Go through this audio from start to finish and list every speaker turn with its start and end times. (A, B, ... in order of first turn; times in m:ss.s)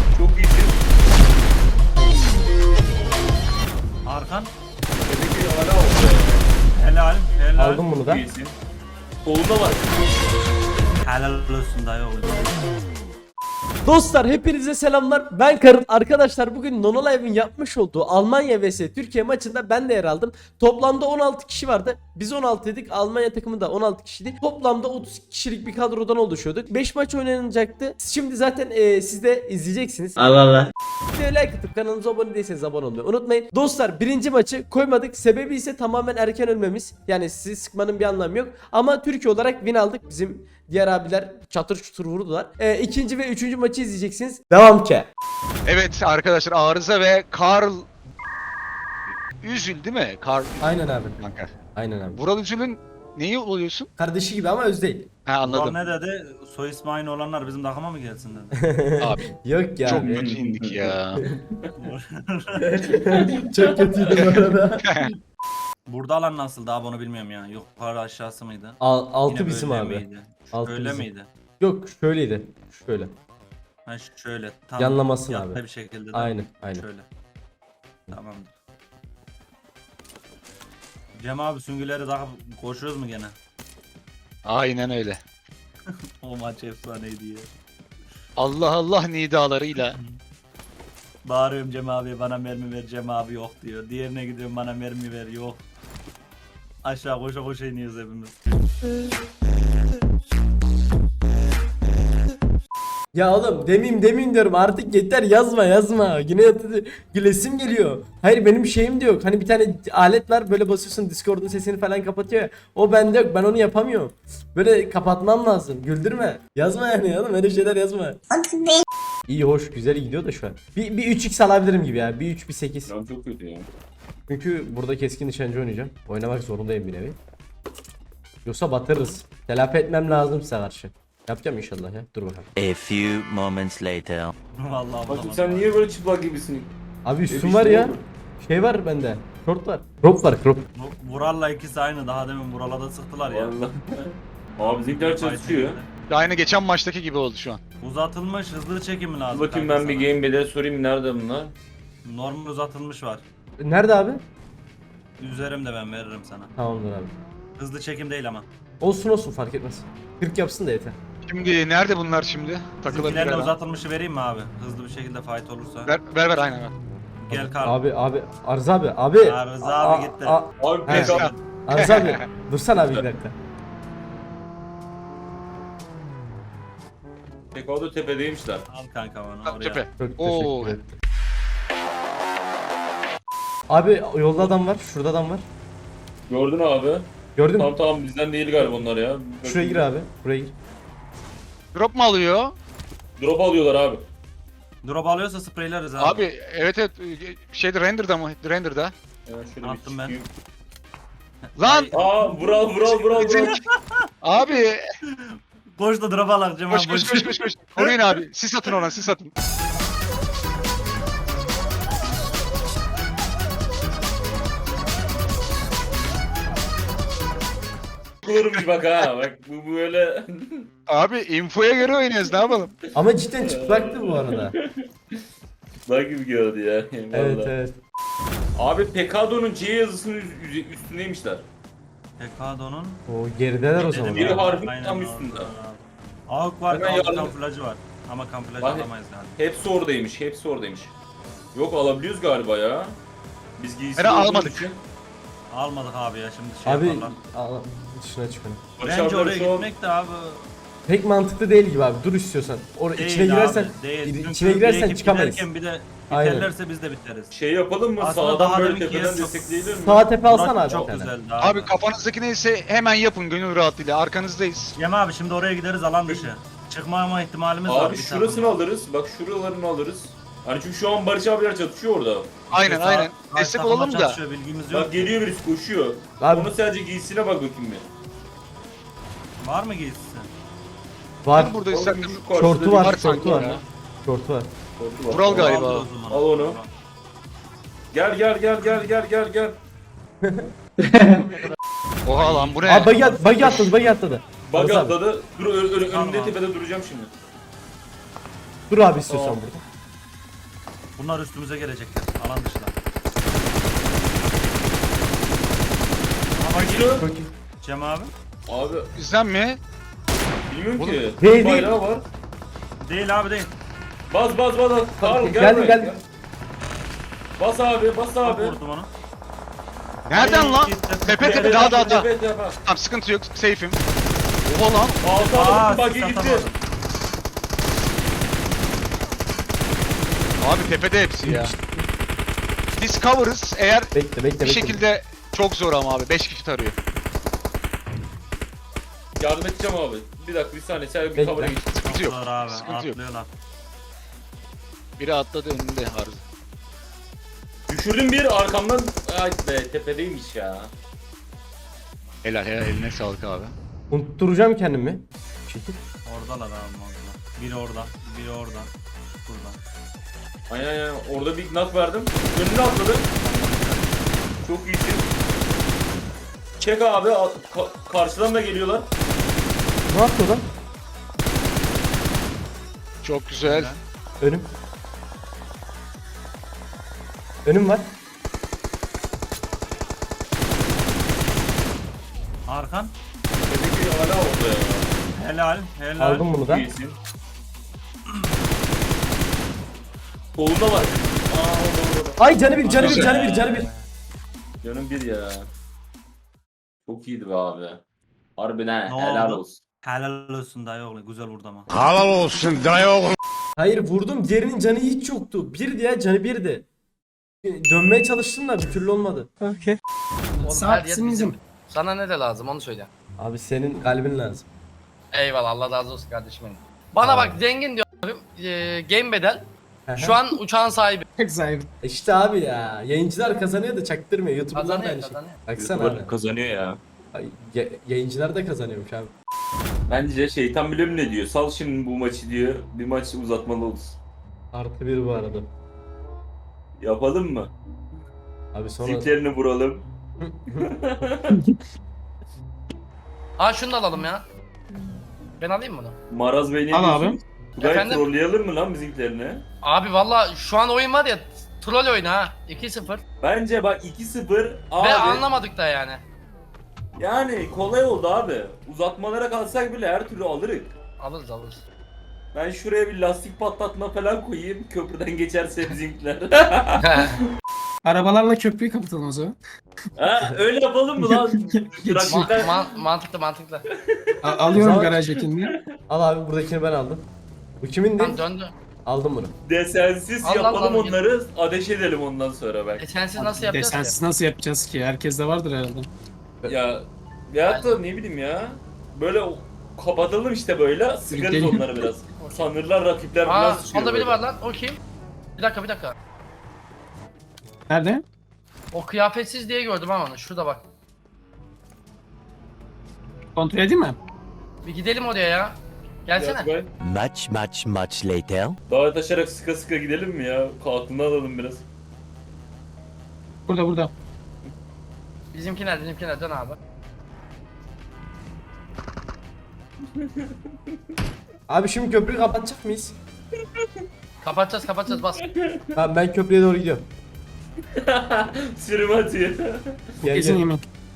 0:00.1-0:00.8 A
0:04.0-0:04.5 B
0:05.1-0:06.5 A
0:06.7-0:07.8 B
0:07.5-0:08.2 C
0:08.0-0:08.6 A
0:09.2-0:09.9 A
0:11.0-0:12.5 B
0:13.8-0:30.4 C
0:31.1-0:45.1 C
0:45.6-0:47.9 D
0:49.4-0:51.5 D
0:50.6-0:51.2 C
0:51.8-0:52.2 C
0:52.1-0:53.9 D
0:54.0-0:55.1 C
0:55.3-0:55.8 D
0:55.4-0:58.6 B
0:58.6-1:00.1 C
0:59.0-0:59.2 D
0:59.8-1:01.2 D
1:00.0-1:01.7 A
1:01.8-1:03.1 B
1:02.6-1:04.9 C
1:04.8-1:05.1 D
1:05.9-1:11.3 B
1:08.8-1:11.1 C
1:11.6-1:13.1 C
1:13.8-1:17.0 B
1:14.8-1:15.6 C
1:16.1-1:16.8 C
1:18.1-1:18.5 B
1:21.2-1:23.3 B
1:24.4-1:25.2 D
1:26.2-1:27.5 B
1:28.4-1:30.0 D
1:29.9-1:30.2 B
1:31.2-1:35.6 B
1:36.8-1:38.3 B
1:43.1-1:58.2 C
1:58.3-1:58.8 E
1:59.3-2:02.9 C
2:02.9-2:03.7 A
2:04.3-2:07.2 C
2:08.4-2:12.5 C
2:12.6-2:14.3 E
2:14.6-2:15.7 B
2:15.1-2:16.7 A
2:17.0-2:20.6 C
2:17.3-2:18.0 A
2:20.7-2:23.5 B
2:23.3-2:25.8 A
2:24.6-2:25.9 B
2:26.1-2:27.6 D
2:27.8-2:30.1 B
2:29.3-2:31.5 A
2:32.0-2:33.2 B
2:33.6-2:34.2 C
2:35.2-2:36.5 B
2:36.6-2:37.1 C
2:37.6-2:38.4 B
2:38.8-2:41.0 C
2:41.3-2:43.5 D
2:42.8-2:45.9 B
2:45.8-2:46.7 D
2:47.2-2:47.8 B
2:47.3-2:53.3 C
2:49.2-2:50.4 B
2:50.6-2:51.3 A
2:50.9-2:52.2 D
2:51.1-2:51.4 B
2:57.5-2:58.6 A
2:58.7-2:59.8 B
2:59.4-3:00.8 D
3:00.0-3:01.0 C
3:03.7-3:05.4 C
3:06.3-3:09.9 A
3:07.4-3:07.7 C
3:09.4-3:10.5 C
3:11.7-3:12.5 D
3:13.2-3:14.0 A
3:14.8-3:16.3 B
3:16.0-3:18.9 D
3:19.2-3:20.3 A
3:19.6-3:20.2 B
3:21.6-3:22.6 B
3:21.6-3:21.9 D
3:21.9-3:23.5 A
3:22.8-3:23.6 D
3:23.2-3:23.6 B
3:24.2-3:24.8 D
3:25.2-3:28.0 B
3:26.7-3:29.3 D
3:38.2-3:40.7 A
3:40.9-3:42.7 D
3:42.9-3:44.5 C
3:43.4-3:44.8 A
3:45.9-3:47.5 A
3:47.1-3:47.8 C
3:48.6-3:51.5 A
3:52.2-3:53.0 B
3:53.1-3:54.5 C
3:53.8-3:59.3 B
3:54.1-3:55.5 A
3:56.7-3:57.3 A
3:58.6-4:00.9 A
4:01.5-4:03.0 A
4:03.6-4:04.8 A
4:04.0-4:04.7 D
4:05.5-4:07.1 B
4:06.6-4:08.6 C
4:08.8-4:09.7 A
4:08.8-4:10.5 B
4:10.9-4:15.5 C
4:12.9-4:17.3 B
4:16.1-4:16.5 C
4:17.3-4:20.1 A
4:18.0-4:21.8 B
4:19.8-4:21.1 C
4:21.4-4:24.7 D
4:24.8-4:28.6 B
4:27.6-4:32.4 A
4:32.5-4:34.2 D
4:32.5-4:35.1 B
4:34.7-4:37.9 A
4:36.2-4:36.5 C
4:39.4-4:40.3 B
4:41.2-4:41.6 C
4:41.3-4:43.6 D
4:41.7-4:43.6 A
4:42.4-4:44.5 C
4:44.8-4:46.6 A
4:45.1-4:45.9 D
4:45.3-4:46.7 B
4:47.9-4:49.6 A
4:50.2-4:50.5 C
4:52.0-4:53.7 D
4:52.0-4:53.9 B
4:52.6-4:55.0 C
4:54.5-4:57.1 A
4:55.8-4:56.4 B
4:58.7-4:59.6 C
4:59.1-4:59.4 A
5:01.0-5:02.7 B
5:06.4-5:07.0 B
5:06.5-5:07.0 A
5:07.0-5:07.3 C
5:07.6-5:08.1 B
5:08.5-5:08.9 A
5:08.9-5:09.6 D
5:10.5-5:12.0 A
5:11.2-5:11.8 C
5:12.8-5:13.5 B
5:14.1-5:16.0 A
5:15.0-5:15.9 C
5:17.4-5:18.6 A
5:18.2-5:18.9 B
5:20.1-5:22.1 D
5:20.1-5:22.0 B
5:21.2-5:22.6 A
5:22.6-5:23.8 D
5:24.4-5:25.0 D
5:25.0-5:26.5 A
5:25.2-5:26.6 B
5:30.4-5:31.5 D
5:31.2-5:31.6 C
5:32.7-5:36.8 D
5:33.9-5:34.8 C
5:39.2-5:41.6 A
5:41.1-5:41.6 C
5:41.5-5:43.0 D
5:41.8-5:43.3 B
5:45.0-5:46.2 D
5:47.7-5:50.7 A
5:52.2-5:53.5 D
5:53.9-5:55.7 C
5:56.0-5:58.7 B
5:59.2-5:59.6 B
6:00.5-6:03.1 A
6:03.2-6:03.9 B
6:04.4-6:05.1 A
6:06.6-6:08.9 A
6:09.9-6:10.4 C
6:13.0-6:13.7 D
6:13.4-6:13.8 B
6:14.2-6:14.5 C
6:17.4-6:17.9 C
6:22.5-6:22.9 B
6:23.5-6:25.0 A
6:25.1-6:26.3 B
6:26.0-6:26.7 C
6:26.4-6:27.0 A
6:30.4-6:32.2 A
6:32.2-6:33.7 C
6:32.6-6:33.9 B
6:32.9-6:33.4 A
6:34.6-6:35.5 A
6:36.8-6:37.8 A
6:38.4-6:39.6 A
6:38.9-6:41.7 B
6:41.7-6:43.1 D
6:43.6-6:46.6 C
6:47.4-6:49.8 C
6:50.4-6:51.3 F
6:50.4-6:52.9 G
6:53.2-6:54.4 C
6:55.1-6:59.4 G
6:57.0-6:57.4 C
6:59.9-7:00.2 C
7:00.0-7:01.0 G
7:01.2-7:01.6 F
7:01.8-7:06.1 C
7:04.5-7:05.4 G
7:05.6-7:06.8 A
7:07.1-7:09.1 C
7:09.9-7:14.0 A
7:14.5-7:15.5 C
7:16.8-7:17.5 A
7:18.5-7:19.1 C
7:18.8-7:19.8 A
7:20.2-7:20.7 C
7:20.7-7:21.4 A
7:23.4-7:24.2 G
7:25.4-7:26.0 G
7:26.1-7:29.4 A
7:26.7-7:27.2 F
7:27.6-7:28.0 G
7:29.6-7:33.0 G
7:33.2-7:35.2 A
7:34.8-7:36.0 G
7:37.0-7:40.7 A
7:41.0-7:41.6 G
7:42.3-7:47.2 A
7:46.8-7:47.2 G
7:47.8-7:49.4 F
7:50.0-7:52.6 A
7:52.0-7:53.6 G
7:53.7-7:55.6 A
7:54.2-7:55.5 F
7:54.5-7:55.0 C
7:55.9-7:57.1 C
7:57.6-7:58.2 C
7:58.0-7:58.5 G
7:58.8-7:59.3 C
7:59.4-8:02.8 A
8:00.2-8:01.0 G
8:02.8-8:04.0 G
8:03.4-8:05.9 F
8:06.4-8:14.2 A
8:07.4-8:07.8 G
8:11.1-8:11.6 F
8:13.2-8:14.8 G
8:15.4-8:16.0 G
8:17.7-8:18.0 F
8:18.7-8:20.6 G
8:23.4-8:24.0 F
8:24.6-8:26.5 G
8:26.1-8:26.7 A
8:26.8-8:28.6 E
8:28.7-8:31.6 A
8:33.5-8:33.9 F
8:35.3-8:36.6 G
8:40.0-8:40.3 A
8:41.5-8:43.0 C
8:44.2-8:45.2 G
8:45.2-8:45.8 A
8:45.7-8:46.9 C
8:47.7-8:49.8 A
8:50.0-8:50.5 C
8:50.1-8:50.6 F